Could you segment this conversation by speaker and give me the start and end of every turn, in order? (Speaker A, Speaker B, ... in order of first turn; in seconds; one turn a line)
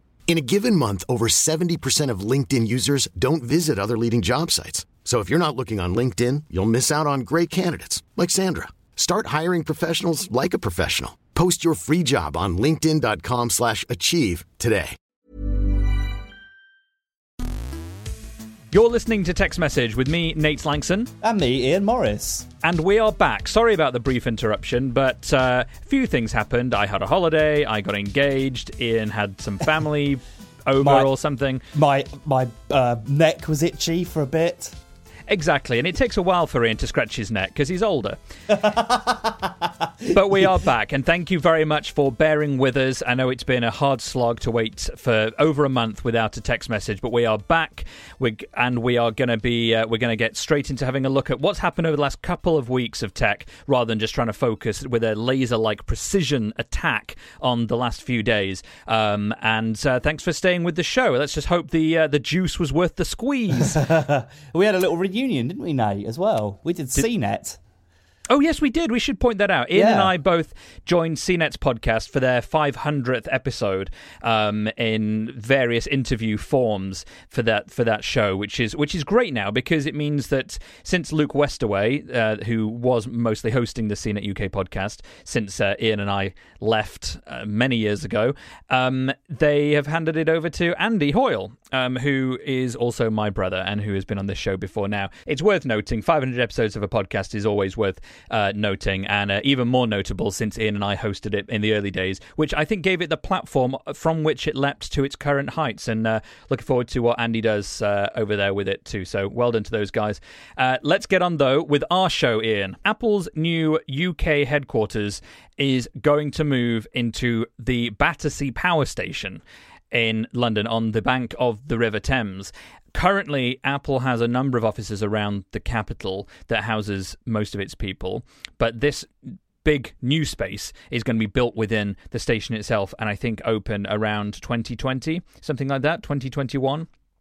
Speaker A: 0.3-15.0
Speaker B: 18.7-21.1
Speaker C: 21.2-22.5
Speaker B: 22.6-31.6
Speaker C: 30.8-31.1
Speaker C: 31.7-34.8
Speaker B: 35.3-38.2
Speaker C: 38.5-40.5
Speaker B: 40.1-63.9
Speaker C: 63.6-67.6
Speaker B: 68.3-136.9
Speaker C: 69.7-70.1